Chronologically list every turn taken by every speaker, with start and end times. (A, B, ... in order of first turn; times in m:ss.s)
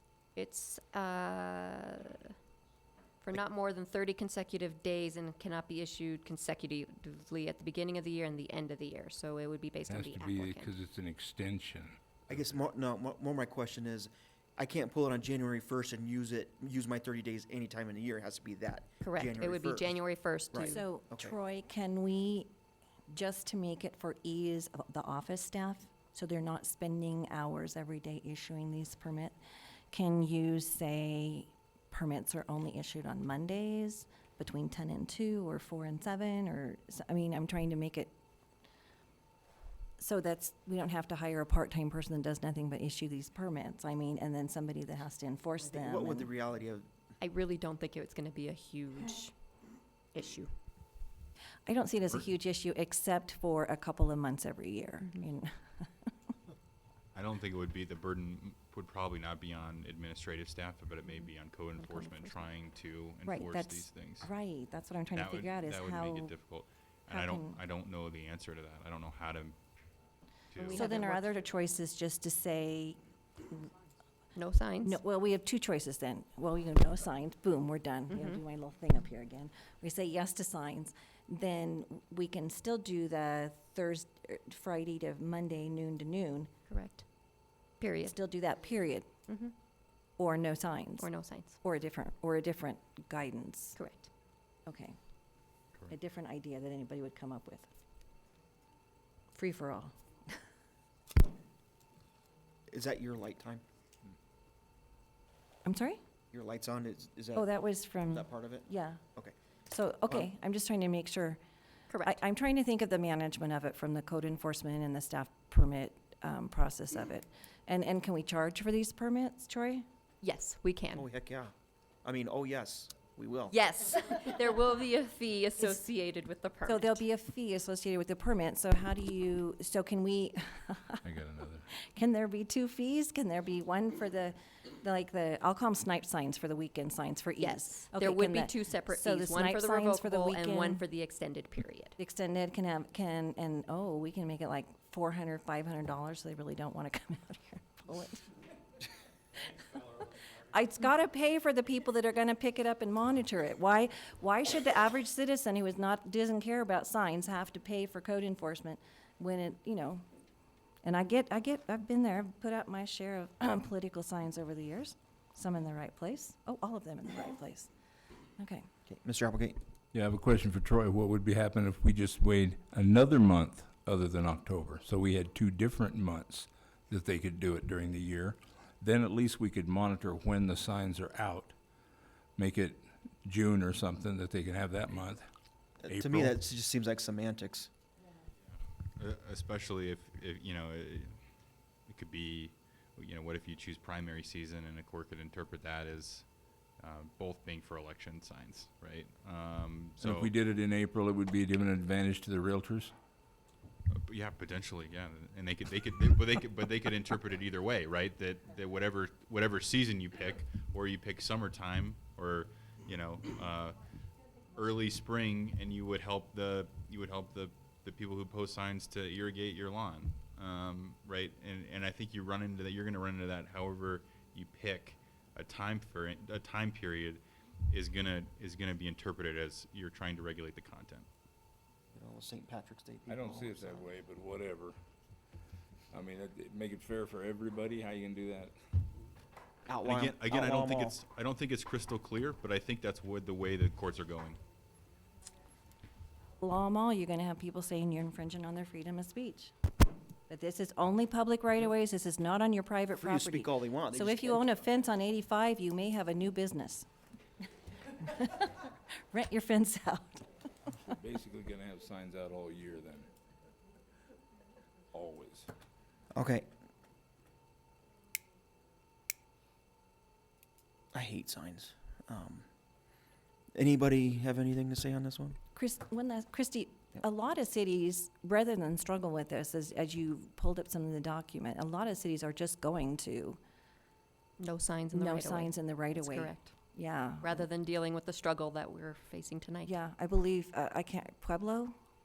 0:00.4-0:02.3 A
0:03.2-0:10.7 A
0:09.9-0:12.0 B
0:12.3-0:20.0 C
0:19.0-0:20.8 A
0:20.5-0:21.3 C
0:20.6-0:22.5 D
0:23.1-0:29.3 D
0:29.9-0:38.1 D
0:40.0-0:46.3 D
0:45.6-0:46.9 C
0:47.2-0:49.3 A
0:50.1-0:50.5 A
0:51.7-0:55.5 D
0:57.1-1:04.3 E
1:01.1-1:02.5 A
1:03.3-1:06.3 D
1:05.1-1:09.6 E
1:07.1-1:07.6 D
1:10.5-1:10.8 E
1:10.6-1:11.3 A
1:10.7-1:13.7 D
1:14.3-1:15.0 A
1:14.8-1:26.5 D
1:18.1-1:18.4 A
1:26.7-1:27.0 A
1:27.8-1:28.1 A
1:28.0-1:29.1 D
1:29.3-1:29.5 A
1:30.2-1:31.1 D
1:31.0-1:31.6 A
1:31.6-1:33.8 D
1:33.8-1:34.1 A
1:34.6-1:35.0 D
1:35.9-1:37.7 D
1:39.3-1:39.9 D
1:42.7-1:43.6 C
1:45.6-1:46.0 D
1:46.3-1:47.5 C
1:47.4-1:49.0 D
1:48.1-1:49.3 C
1:49.7-1:51.4 D
1:51.9-1:52.2 A
1:52.0-1:59.8 D
2:00.2-2:01.1 A
2:00.9-2:01.5 C
2:02.0-2:03.6 C
2:03.5-2:07.0 A
2:06.7-2:11.0 D
2:11.0-2:11.6 B
2:11.8-2:20.8 D
2:17.4-2:22.0 A
2:22.0-2:28.3 D
2:29.7-2:40.0 D
2:40.8-2:47.7 D
2:48.4-2:48.7 D
2:48.9-2:49.6 C
2:49.9-3:01.5 B
3:02.4-3:05.3 B
3:05.8-3:07.7 C
3:05.9-3:06.4 B
3:09.0-3:11.2 E
3:11.9-3:16.3 E
3:16.8-3:20.3 E
3:20.0-3:22.9 B
3:23.9-3:33.8 E
3:34.5-3:51.1 E
3:51.9-3:53.9 C
3:53.1-3:54.8 B
3:55.9-3:58.6 B
3:59.7-4:01.0 C
3:59.8-4:04.4 E
4:06.4-4:09.5 D
4:10.3-4:16.9 D
4:13.0-4:14.5 C
4:17.9-4:20.3 D
4:20.8-4:23.1 B
4:24.9-4:25.5 B
4:26.1-4:26.5 C
4:30.9-4:32.4 C
4:33.5-4:35.4 C
4:35.5-4:43.4 D
4:44.4-4:46.5 A
4:44.9-4:47.4 D
4:47.2-4:49.7 A
4:49.6-4:51.7 D